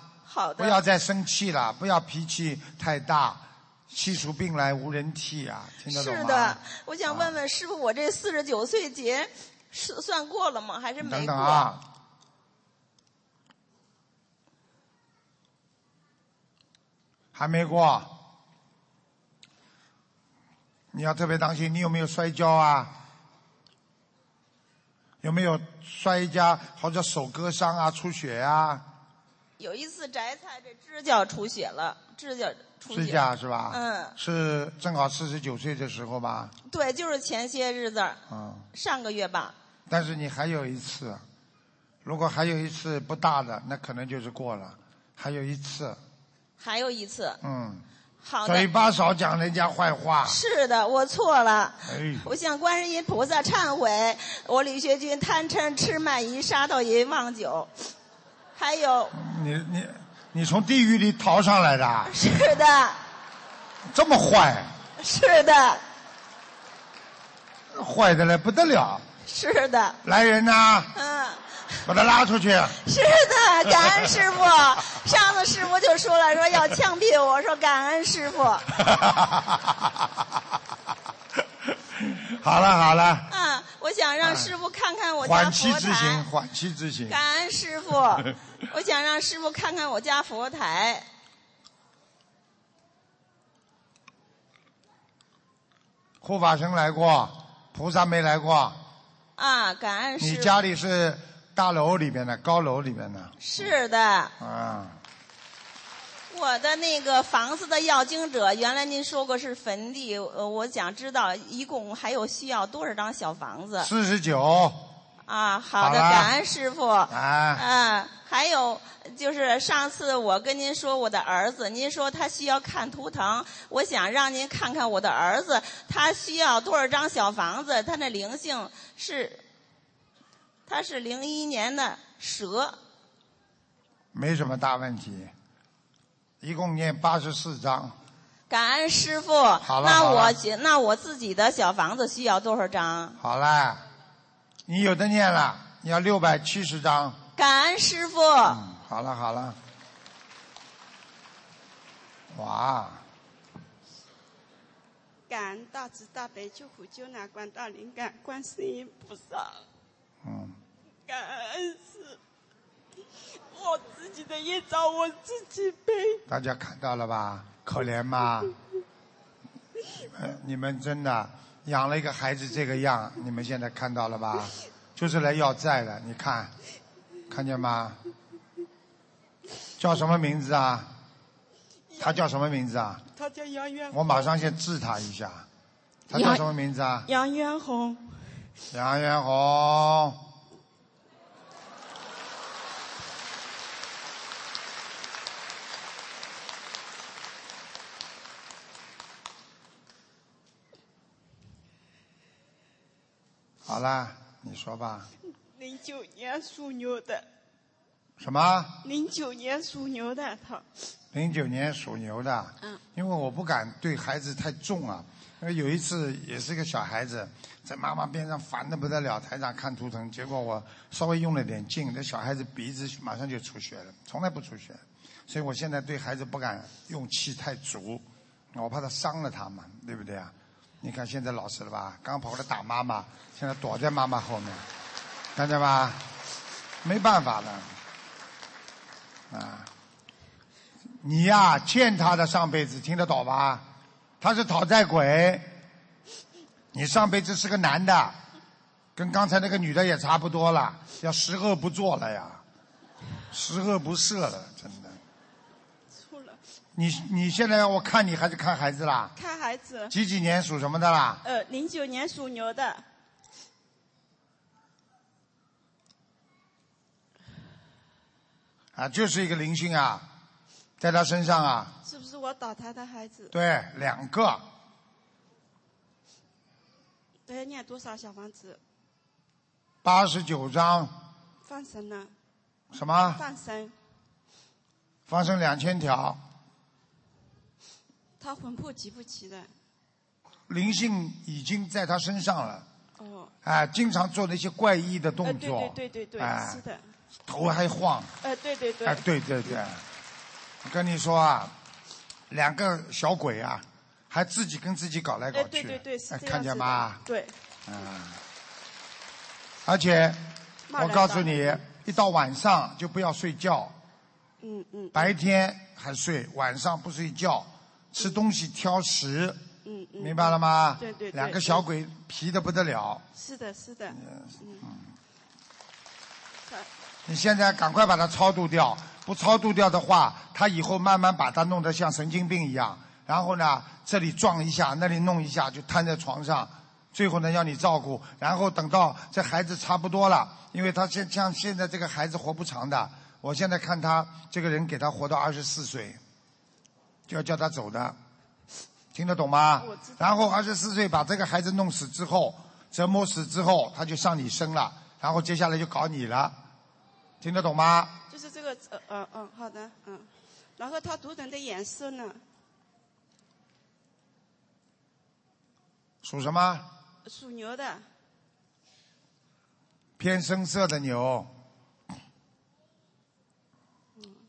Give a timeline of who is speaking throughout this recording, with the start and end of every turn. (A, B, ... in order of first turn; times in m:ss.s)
0:00.2-0:00.8 A
0:00.6-0:07.4 B
0:05.9-0:11.7 A
0:11.0-0:11.8 B
0:17.3-0:18.2 B
0:20.9-0:23.0 B
0:25.2-0:28.9 B
0:29.6-0:34.1 A
0:32.9-0:36.5 B
0:36.6-0:38.2 A
0:38.3-0:38.7 B
0:38.7-0:39.5 A
0:39.9-0:41.2 B
0:42.0-0:46.0 B
0:46.6-0:47.4 A
0:47.4-0:47.8 B
0:48.2-0:48.7 A
0:48.4-0:50.4 B
0:50.2-0:57.7 A
0:51.8-0:52.3 B
0:58.6-0:59.1 A
0:59.1-1:02.1 B
1:02.1-1:03.0 A
1:03.9-1:04.7 B
1:05.0-1:05.8 A
1:07.7-1:09.0 B
1:09.2-1:10.0 A
1:10.0-1:10.9 B
1:10.9-1:11.9 A
1:11.8-1:12.8 B
1:12.8-1:18.7 A
1:18.8-1:19.9 B
1:22.0-1:23.3 B
1:23.3-1:26.3 A
1:24.2-1:24.5 B
1:25.2-1:27.2 B
1:27.1-1:31.0 A
1:36.2-1:38.8 B
1:39.4-1:40.5 A
1:40.2-1:43.7 B
1:43.4-1:44.3 A
1:44.4-1:45.0 B
1:46.3-1:53.9 A
1:53.8-1:54.8 B
1:55.2-2:09.4 A
1:55.8-1:56.3 B
1:57.1-1:57.6 B
2:10.7-2:12.8 A
2:14.1-2:15.3 B
2:16.4-2:18.0 B
2:18.5-2:23.2 A
2:19.6-2:20.4 B
2:23.2-2:23.8 B
2:24.6-2:27.2 B
2:27.4-2:28.6 A
2:28.5-2:29.6 B
2:32.3-2:33.0 B
2:35.3-2:39.6 C
2:40.2-2:40.6 B
2:41.1-2:42.2 C
2:43.5-2:46.2 C
2:46.3-2:48.5 B
2:50.0-2:56.5 B
2:57.3-2:58.0 B
2:59.8-3:00.9 B
3:01.9-3:02.2 C
3:02.0-3:03.0 B
3:03.1-3:04.4 C
3:03.9-3:05.5 B
3:06.1-3:07.1 B
3:06.1-3:06.4 C
3:07.0-3:08.0 C
3:08.7-3:10.2 B
3:23.6-3:25.1 B
3:25.5-3:27.3 C
3:28.2-3:28.8 B
3:28.8-3:30.6 C
3:31.1-3:54.6 B
3:55.3-3:56.0 B
3:56.8-3:57.7 B
3:59.3-3:59.7 B
4:01.0-4:03.7 B
4:04.2-4:05.6 B
4:06.7-4:08.2 B
4:09.0-4:12.4 B
4:13.3-4:15.0 B
4:15.9-4:16.4 C
4:16.8-4:19.1 B
4:19.2-4:19.9 C
4:19.9-4:21.2 B
4:21.2-4:22.8 C
4:28.7-4:30.1 B
4:30.8-4:31.8 B
4:31.8-4:33.3 C
4:33.3-4:34.4 B
4:37.3-4:38.6 C
4:39.8-4:40.9 B
4:41.4-4:42.1 C
4:42.7-4:43.2 B
4:42.9-4:43.7 C
4:45.1-4:46.2 B
4:48.2-4:49.5 C
4:50.5-4:52.6 B
4:53.0-4:53.3 C
4:53.4-4:56.6 B
4:55.2-4:56.8 C
4:57.3-4:58.1 B
4:58.2-4:59.0 C
4:58.8-4:59.8 B
5:00.6-5:01.5 B
5:02.3-5:07.0 B
5:05.3-5:07.3 C
5:07.7-5:08.2 B
5:09.6-5:13.8 B
5:10.7-5:11.6 C
5:14.4-5:15.2 C
5:14.9-5:19.4 B
5:19.6-5:21.6 C
5:20.0-5:23.0 B
5:23.1-5:24.6 C
5:23.9-5:24.9 B
5:27.1-5:46.0 B
5:47.1-5:48.0 B
5:48.9-5:56.4 B
5:49.6-5:50.3 C
5:57.2-5:58.0 B
5:58.1-6:02.2 C
6:06.0-6:06.7 B
6:07.0-6:07.8 C
6:10.0-6:11.3 B